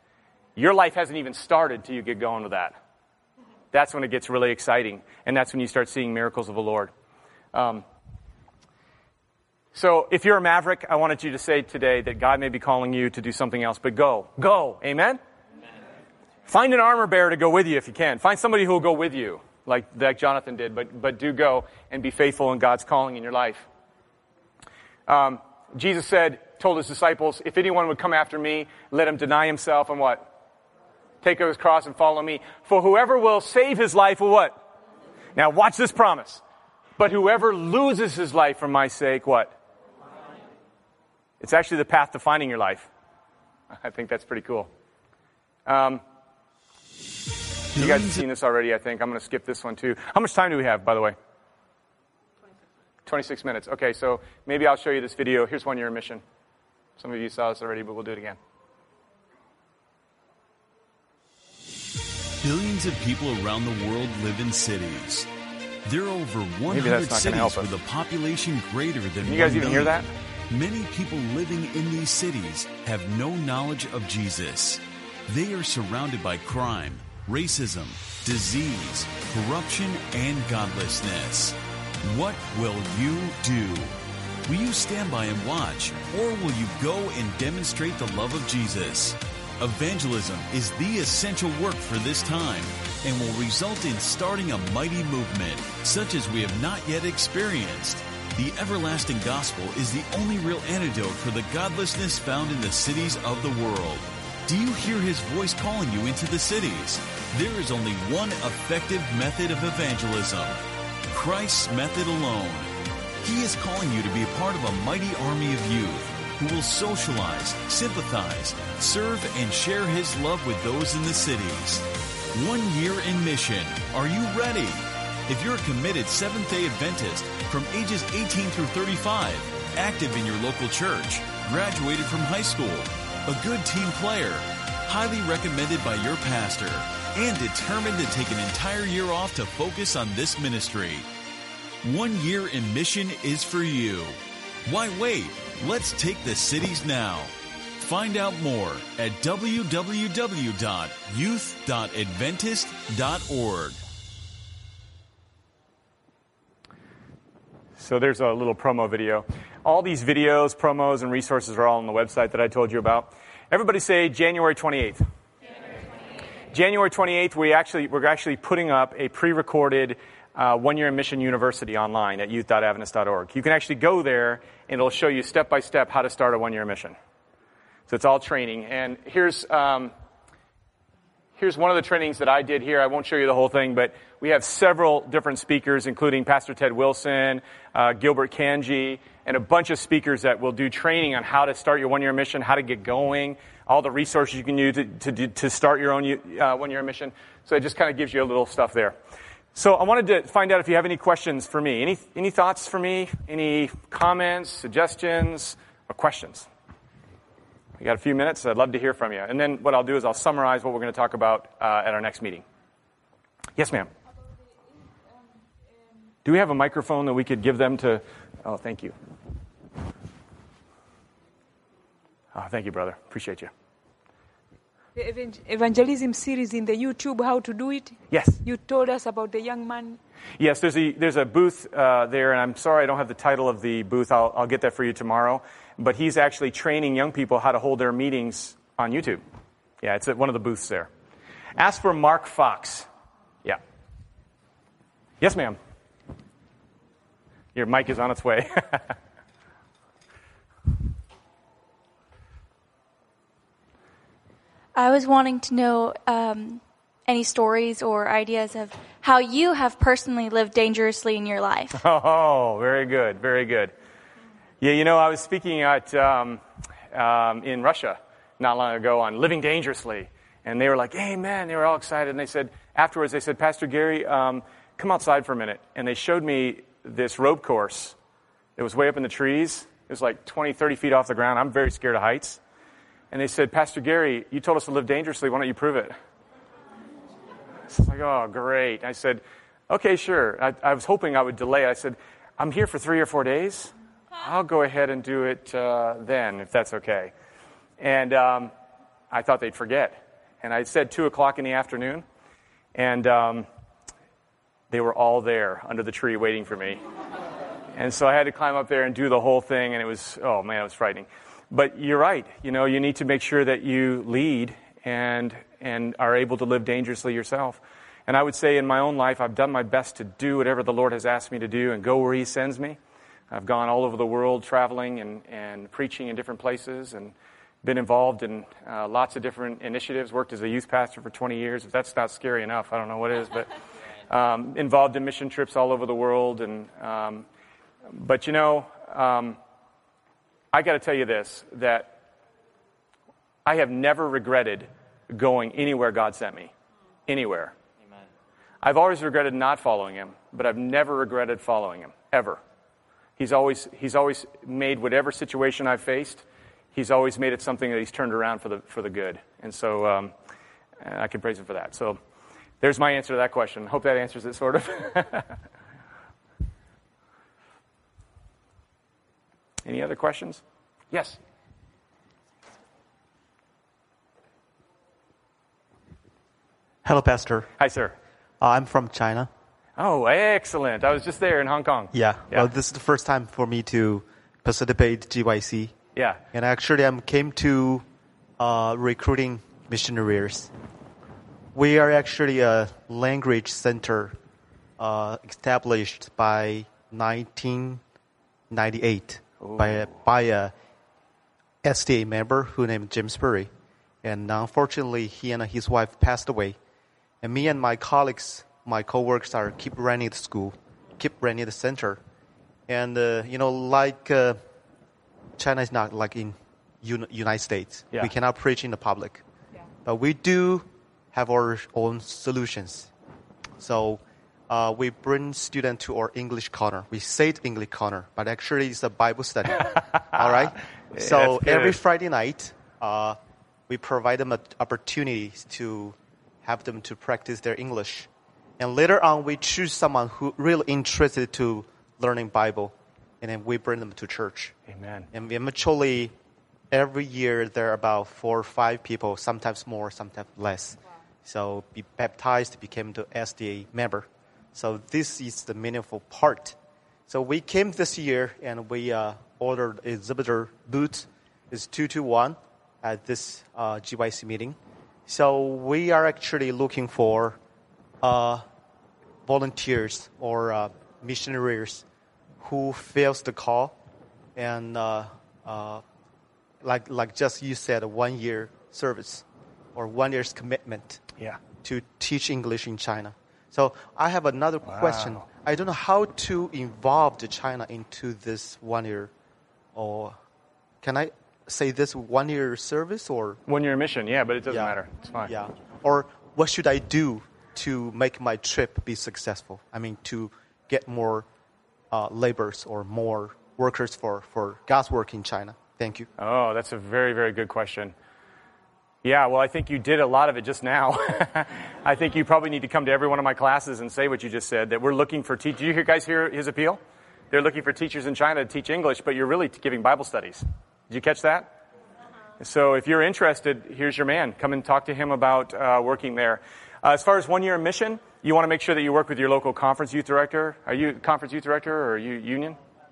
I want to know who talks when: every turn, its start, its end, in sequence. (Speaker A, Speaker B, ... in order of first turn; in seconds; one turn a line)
Speaker A: 0.6-2.8
Speaker A: 3.7-6.9
Speaker A: 7.5-7.8
Speaker A: 9.7-15.2
Speaker A: 16.5-23.7
Speaker A: 25.1-30.2
Speaker A: 31.2-34.6
Speaker A: 35.4-36.4
Speaker A: 37.0-39.5
Speaker A: 41.4-42.9
Speaker A: 43.7-44.7
Speaker A: 45.6-46.0
Speaker B: 47.7-48.3
Speaker A: 47.8-51.1
Speaker A: 53.0-56.2
Speaker A: 57.0-58.4
Speaker B: 62.4-65.3
Speaker B: 65.8-83.9
Speaker A: 66.7-67.7
Speaker A: 69.2-70.1
Speaker B: 84.5-112.7
Speaker B: 113.2-141.1
Speaker B: 141.8-153.8
Speaker A: 157.8-165.0
Speaker A: 166.5-176.9
Speaker A: 177.9-179.9
Speaker A: 181.4-198.9
Speaker A: 199.5-206.5
Speaker A: 207.8-212.4
Speaker A: 213.6-213.9
Speaker A: 216.2-218.9
Speaker A: 222.3-223.5
Speaker C: 224.9-230.0
Speaker A: 228.1-228.4
Speaker A: 230.4-239.2
Speaker A: 239.8-240.9
Speaker A: 241.6-242.9
Speaker A: 245.2-245.6
Speaker A: 247.5-248.9
Speaker D: 254.7-261.8
Speaker A: 261.7-263.7
Speaker A: 264.6-266.4
Speaker A: 266.9-277.9
Speaker A: 278.6-282.4
Speaker A: 283.1-285.9
Speaker A: 287.7-297.1
Speaker A: 297.8-298.5
Speaker A: 299.1-302.0
Speaker A: 302.7-303.5
Speaker A: 304.7-306.8
Speaker A: 307.7-322.8
Speaker A: 323.3-333.5
Speaker A: 334.1-337.2
Speaker A: 337.9-339.4
Speaker A: 340.5-341.9
Speaker A: 343.4-346.5
Speaker A: 347.1-347.5
Speaker A: 348.6-352.4
Speaker A: 353.2-360.1
Speaker A: 360.8-362.0
Speaker A: 362.6-365.3
Speaker A: 369.6-371.2
Speaker E: 376.8-377.5
Speaker A: 377.6-377.9
Speaker E: 378.4-379.3
Speaker A: 379.8-382.5
Speaker E: 381.9-385.7
Speaker A: 385.9-386.2
Speaker E: 386.3-387.8
Speaker E: 388.4-390.5
Speaker E: 391.5-394.1
Speaker E: 394.8-397.8
Speaker E: 398.5-400.5
Speaker A: 399.4-399.9
Speaker E: 401.6-403.5
Speaker E: 404.0-406.6
Speaker E: 407.2-412.0
Speaker E: 412.7-414.4
Speaker E: 415.4-419.2
Speaker E: 419.8-422.9
Speaker E: 423.6-433.2
Speaker A: 430.9-431.8
Speaker E: 433.7-438.1
Speaker E: 438.6-444.5
Speaker A: 444.7-445.1
Speaker E: 445.1-446.1
Speaker E: 446.7-456.6
Speaker E: 457.1-467.4
Speaker E: 468.0-468.4
Speaker E: 469.2-471.8
Speaker E: 472.4-473.8
Speaker E: 474.4-475.8
Speaker E: 476.6-479.2
Speaker E: 479.7-481.0
Speaker E: 481.6-489.1
Speaker A: 484.6-485.2
Speaker E: 489.7-490.2
Speaker E: 490.8-493.4
Speaker A: 493.5-495.3
Speaker E: 494.5-501.2
Speaker E: 501.9-506.1
Speaker A: 506.2-507.9
Speaker A: 509.0-516.8
Speaker A: 517.3-521.5
Speaker A: 522.4-532.6